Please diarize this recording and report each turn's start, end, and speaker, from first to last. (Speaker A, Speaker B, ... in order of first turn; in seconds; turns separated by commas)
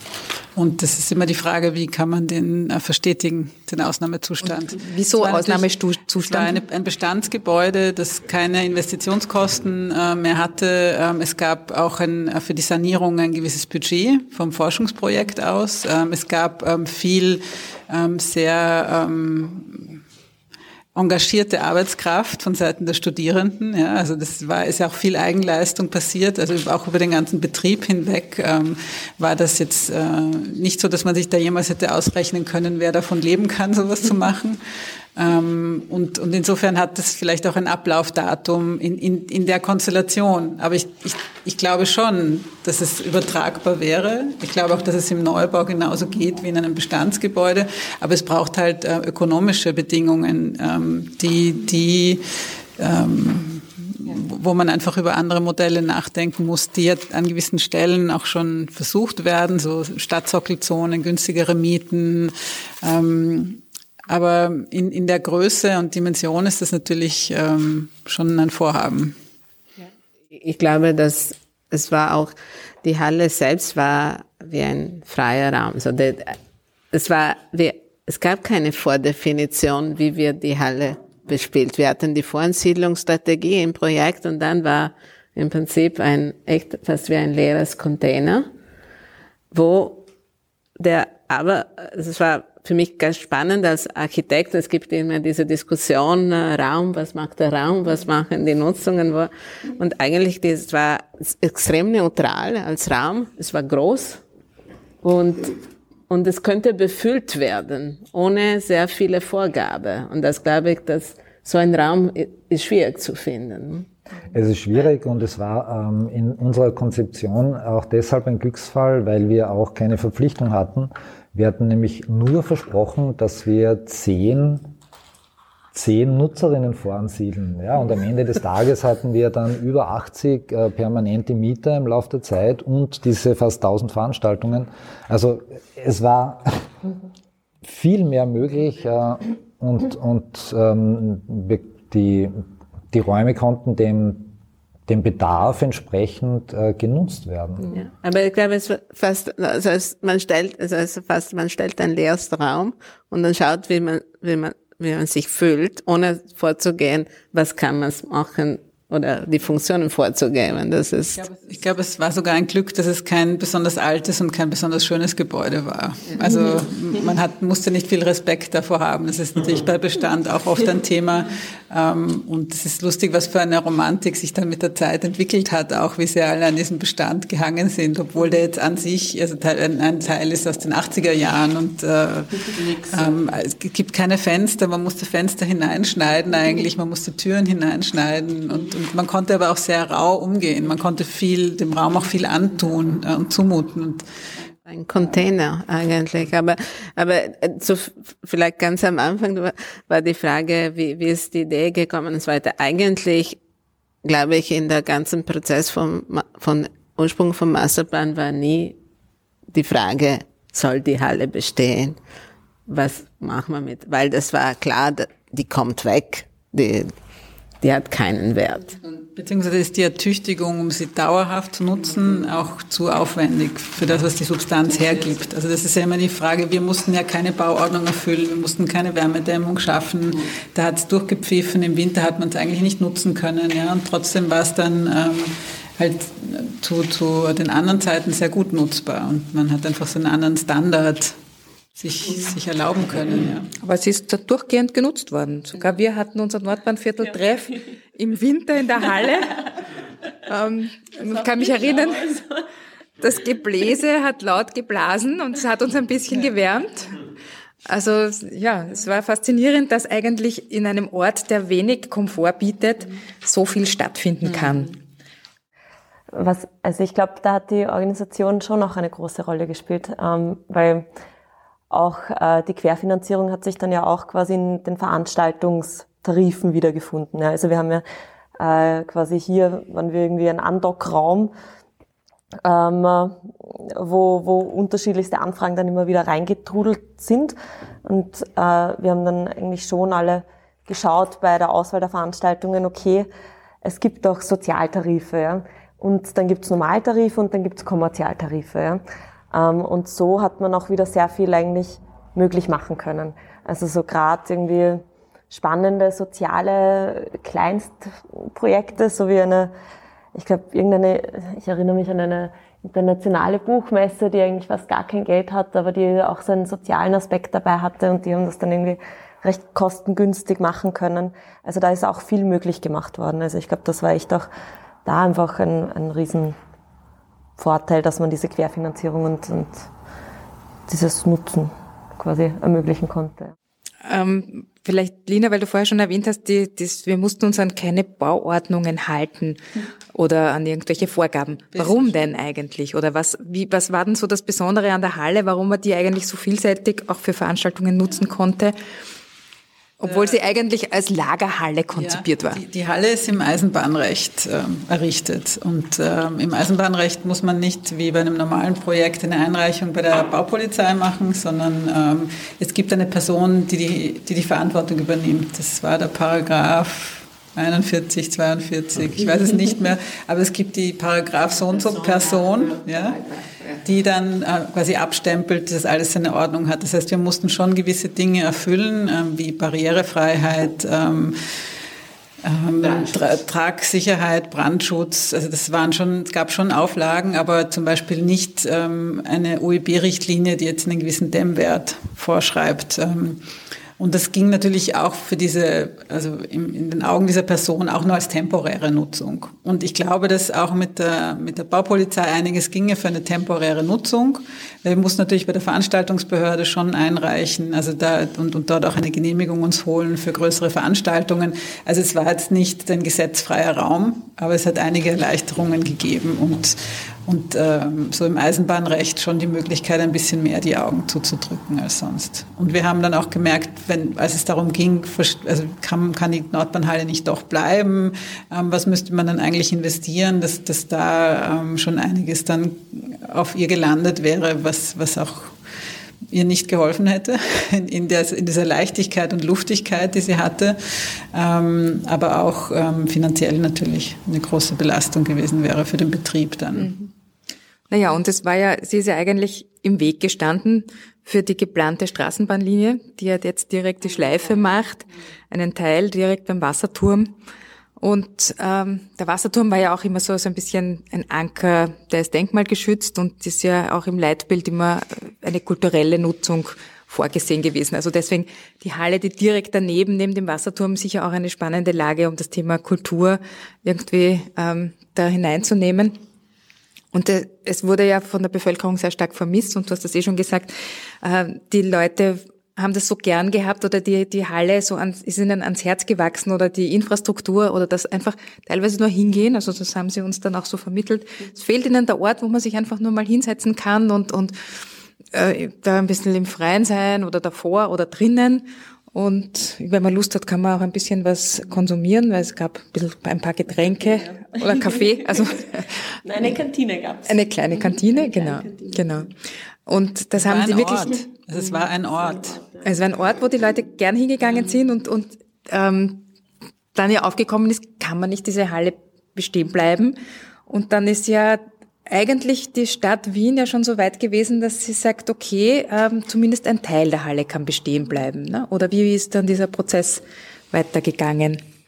Speaker A: 0.6-20.0, Speaker B: 4.4-6.6, Speaker A: 20.9-34.6, Speaker A: 35.1-52.2, Speaker A: 52.8-69.2, Speaker C: 69.8-76.4, Speaker C: 76.9-88.5, Speaker C: 89.5-90.1, Speaker C: 90.8-104.2, Speaker C: 105.0-113.9, Speaker D: 114.3-124.7, Speaker D: 125.7-136.7, Speaker D: 137.6-142.4, Speaker D: 142.9-144.3, Speaker D: 144.9-147.7, Speaker C: 147.7-161.2, Speaker A: 161.1-194.1, Speaker C: 194.7-203.4, Speaker C: 204.0-208.8, Speaker C: 209.5-211.9, Speaker C: 212.7-216.9, Speaker C: 217.6-218.8, Speaker A: 219.1-241.1, Speaker A: 241.8-243.5, Speaker B: 243.6-249.5, Speaker B: 250.3-252.2, Speaker B: 253.0-257.0, Speaker B: 257.6-264.8, Speaker E: 266.1-270.9, Speaker E: 271.7-277.8, Speaker E: 278.4-281.3, Speaker E: 282.4-283.2, Speaker E: 283.8-293.1, Speaker E: 293.6-298.8, Speaker E: 299.3-309.5, Speaker E: 310.1-324.3, Speaker E: 324.8-326.4, Speaker E: 327.4-329.6, Speaker E: 330.7-333.3, Speaker B: 333.9-339.4, Speaker B: 339.9-348.6, Speaker A: 341.5-342.1, Speaker B: 349.8-352.4, Speaker A: 349.8-350.2, Speaker A: 351.7-373.1, Speaker A: 373.6-381.1, Speaker A: 382.2-393.2, Speaker A: 393.8-435.3, Speaker A: 436.1-446.7, Speaker B: 446.6-446.9, Speaker B: 447.7-457.1, Speaker B: 457.8-475.9, Speaker B: 476.9-494.3, Speaker B: 495.1-505.7, Speaker E: 504.4-504.8, Speaker E: 506.1-507.2, Speaker B: 507.1-509.1, Speaker E: 507.9-508.9, Speaker B: 509.6-511.0, Speaker A: 510.1-512.4, Speaker B: 512.6-516.0, Speaker B: 516.7-519.9, Speaker B: 520.5-531.4